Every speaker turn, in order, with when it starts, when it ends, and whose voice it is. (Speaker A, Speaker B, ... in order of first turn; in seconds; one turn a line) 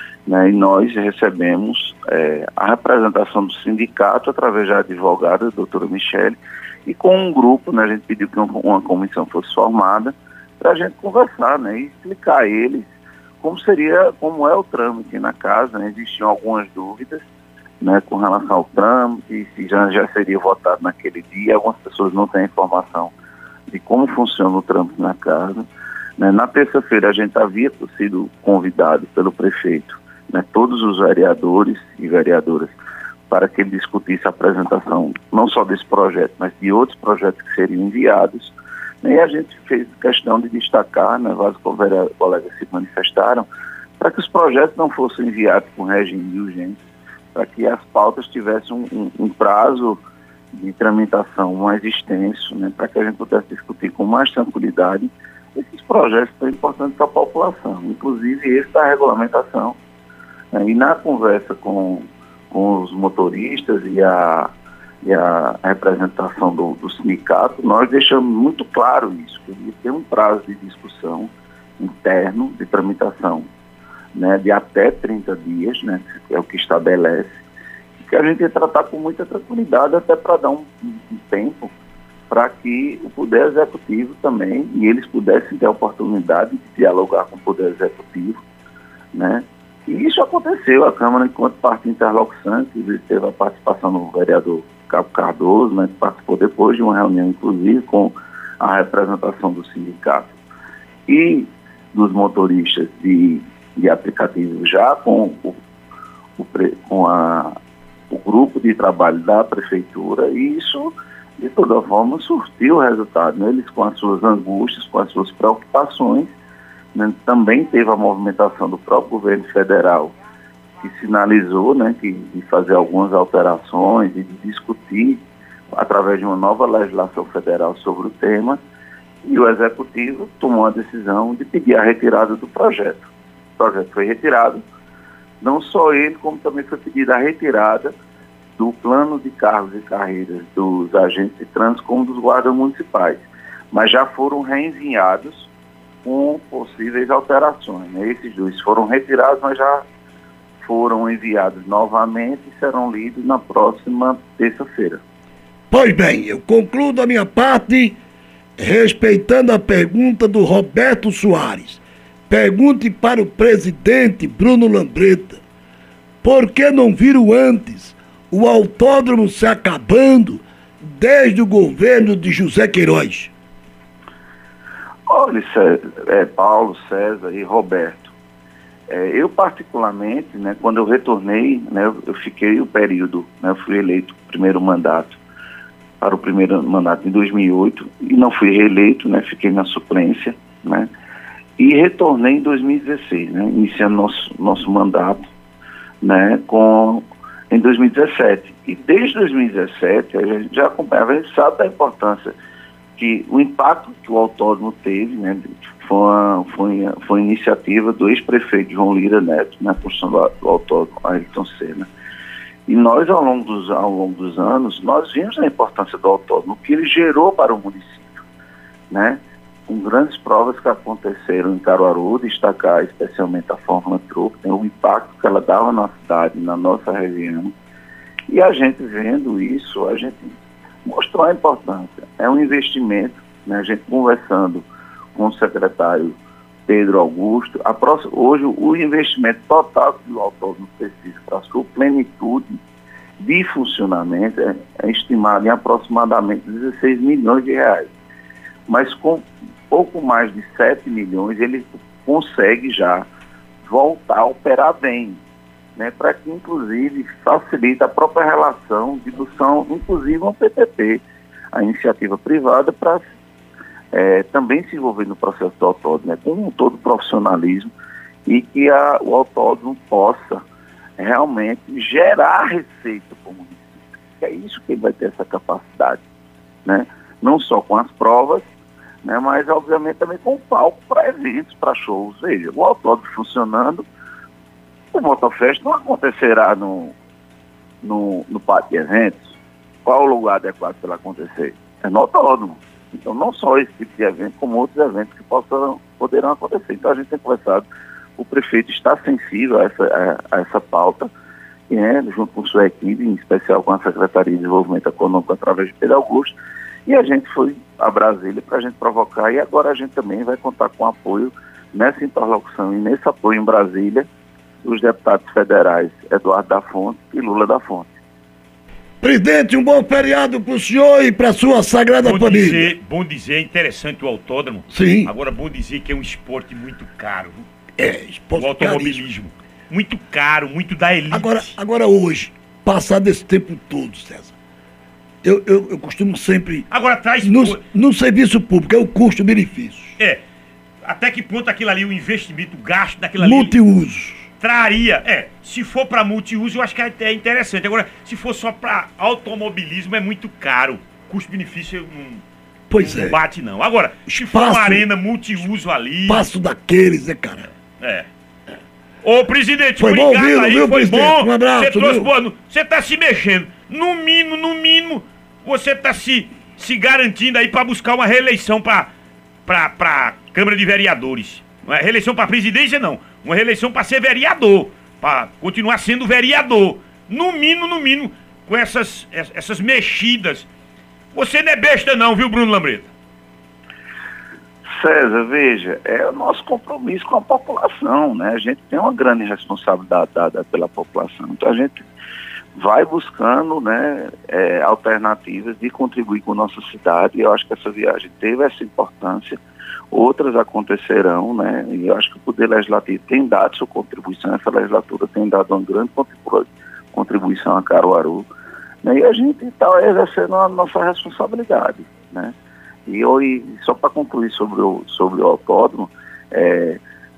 Speaker A: 0.3-17.2
Speaker A: 17.8-23.1
Speaker A: 23.7-25.7
Speaker A: 26.2-32.8
Speaker A: 33.3-43.5
Speaker A: 44.0-46.8
Speaker A: 47.3-50.0
Speaker A: 50.5-59.8
Speaker A: 60.5-64.5
Speaker A: 65.0-73.5
Speaker A: 74.1-77.4
Speaker A: 78.0-81.7
Speaker A: 82.3-88.4
Speaker A: 89.1-100.4
Speaker A: 101.1-105.6
Speaker A: 106.4-107.5
Speaker A: 108.1-116.3
Speaker A: 116.9-120.1
Speaker A: 120.8-128.6
Speaker A: 129.2-134.6
Speaker A: 135.4-137.9
Speaker A: 138.6-145.5
Speaker A: 146.0-149.8
Speaker A: 150.6-155.0
Speaker B: 155.7-158.0
Speaker B: 158.6-165.4
Speaker B: 166.2-173.3
Speaker A: 175.1-178.1
Speaker A: 178.9-185.2
Speaker A: 186.0-190.9
Speaker A: 191.6-195.3
Speaker A: 196.0-202.3
Speaker A: 202.9-211.9
Speaker A: 212.7-218.2
Speaker A: 218.9-227.5
Speaker A: 228.3-236.1
Speaker A: 236.7-242.5
Speaker A: 243.2-247.9
Speaker A: 248.7-253.0
Speaker A: 253.6-255.2
Speaker A: 255.8-261.0
Speaker A: 261.5-263.0
Speaker A: 263.9-267.7
Speaker A: 268.2-270.4
Speaker A: 271.0-276.0
Speaker A: 276.6-278.5
Speaker A: 279.0-283.8
Speaker A: 284.9-286.9
Speaker A: 287.8-297.6
Speaker A: 298.2-301.1
Speaker A: 301.7-306.3
Speaker A: 306.9-314.1
Speaker A: 314.6-318.0
Speaker B: 319.0-322.7
Speaker C: 322.0-327.4
Speaker B: 324.7-325.1
Speaker B: 327.8-329.0
Speaker C: 328.4-331.5
Speaker B: 331.1-334.3
Speaker B: 335.2-336.7
Speaker C: 336.7-337.6
Speaker B: 337.2-339.9
Speaker C: 340.8-343.6
Speaker B: 343.2-344.3
Speaker C: 344.4-352.2
Speaker B: 352.7-353.2
Speaker C: 352.8-356.2
Speaker B: 354.1-354.8
Speaker B: 356.1-357.5
Speaker C: 357.8-358.1
Speaker C: 359.0-368.9
Speaker B: 359.8-362.1
Speaker C: 369.4-380.5
Speaker C: 381.1-382.9
Speaker A: 384.6-391.9
Speaker A: 392.6-399.4
Speaker A: 399.9-408.3
Speaker A: 408.8-412.4
Speaker A: 412.9-416.8